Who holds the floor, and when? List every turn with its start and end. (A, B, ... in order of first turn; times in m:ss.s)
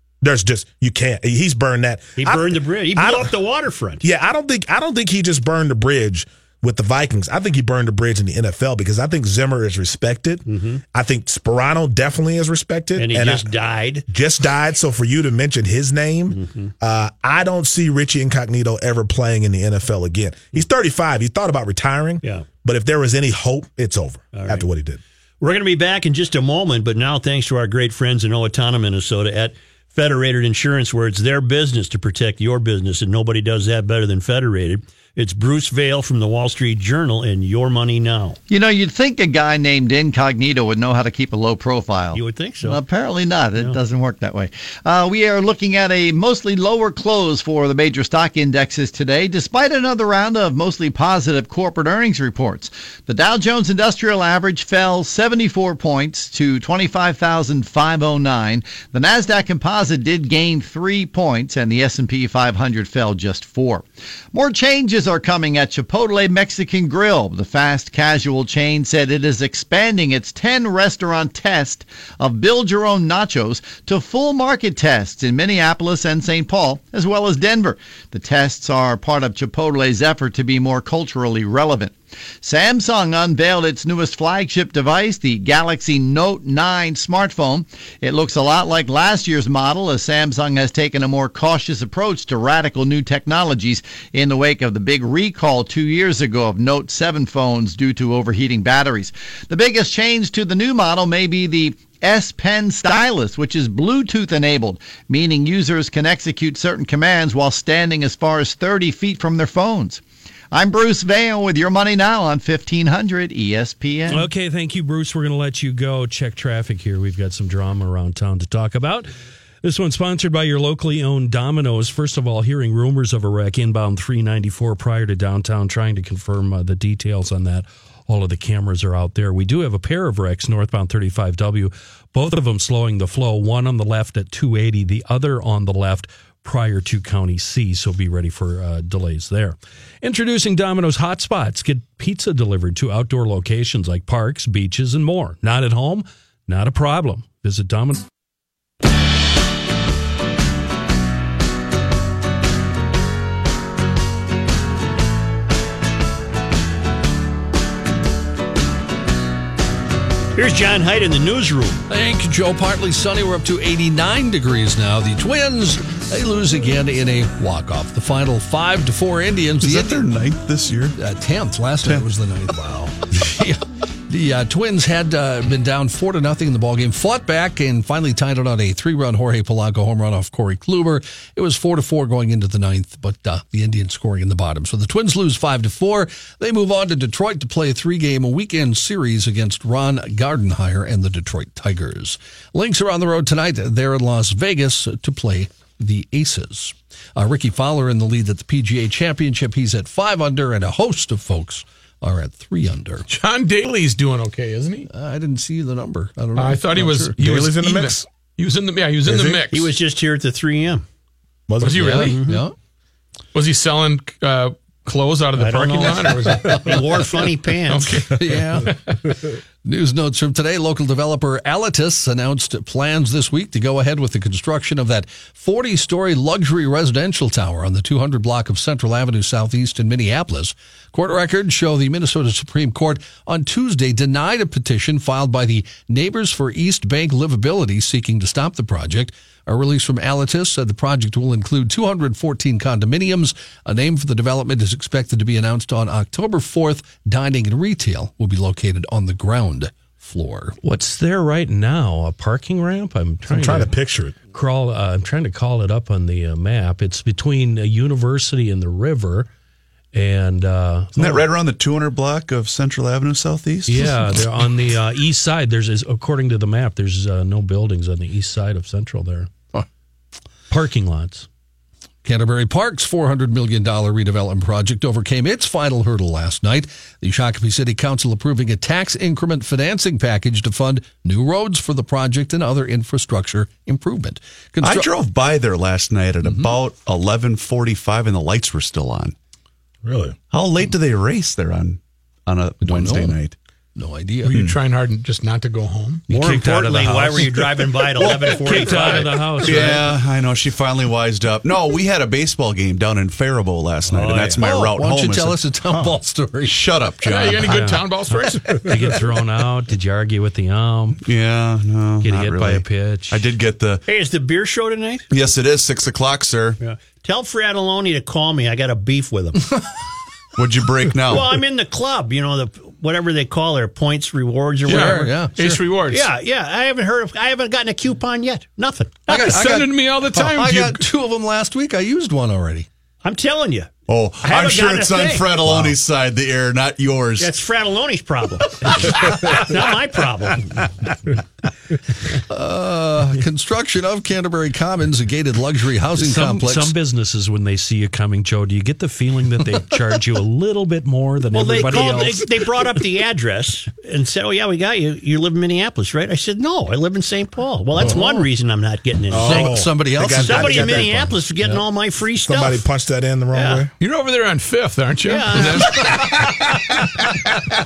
0:00.2-0:03.3 A
0:02.2-0:04.0 B
0:04.0-0:13.5 A
0:10.4-0:10.8 B
0:13.0-0:14.0 B
0:14.1-0:25.0 A
0:16.3-0:16.7 B
0:24.3-0:24.6 B
0:25.4-0:38.4 B
0:38.5-1:54.3 C
0:42.1-0:42.8 B
1:54.1-1:59.1 D
1:59.6-2:28.0 D
2:40.3-2:41.8 B
2:41.9-2:50.0 E
2:49.6-2:51.0 F
2:51.0-3:23.1 E
3:23.1-3:24.9 G
3:24.9-3:27.2 E
3:26.4-3:29.7 G
3:27.2-3:28.0 A
3:29.0-3:29.4 A
3:29.5-3:30.8 B
3:31.5-3:32.0 A
3:31.6-3:32.2 G
3:31.7-3:32.5 E
3:31.9-3:32.4 B
3:33.3-3:38.9 G
3:35.4-3:38.0 B
3:38.1-4:10.6 E
4:10.6-4:13.7 D
4:13.3-4:14.2 A
4:14.3-4:19.3 D
4:19.9-4:21.3 D
4:20.9-4:23.9 F
4:23.7-4:29.3 D
4:30.5-4:31.3 D
4:32.0-4:44.9 E
4:44.6-4:49.2 F
4:46.2-4:46.6 E
4:49.8-4:50.2 A
4:50.3-4:53.3 F
4:52.6-4:53.2 E
4:53.7-4:54.4 E
4:54.2-4:56.0 G
4:54.3-4:54.6 F
4:56.1-4:59.9 D
4:56.1-4:59.7 B
4:58.7-5:05.9 F
5:03.9-5:04.4 B
5:04.4-5:06.6 E
5:06.4-5:07.7 F
5:07.0-5:08.9 G
5:07.5-5:07.8 D
5:08.5-5:11.0 D
5:11.0-5:13.8 F
5:12.0-5:13.2 D
5:13.8-5:15.0 B
5:15.1-5:16.6 F
5:16.6-5:19.4 B
5:20.4-5:21.4 F
5:21.1-5:25.1 B
5:24.7-5:25.6 E
5:24.7-5:26.1 G
5:25.9-5:29.4 B
5:29.1-5:32.7 E
5:29.1-5:30.8 G
5:33.0-5:35.4 B
5:33.9-5:37.3 F
5:37.2-5:40.7 B
5:42.1-5:46.8 E
5:46.0-5:52.3 D
5:51.3-6:02.6 B
5:57.8-5:58.1 E
5:59.1-6:01.0 A
5:59.2-6:01.6 E
6:02.2-6:03.7 A
6:03.3-6:03.7 B
6:03.8-6:06.3 G
6:05.0-6:05.7 B
6:05.8-6:06.1 E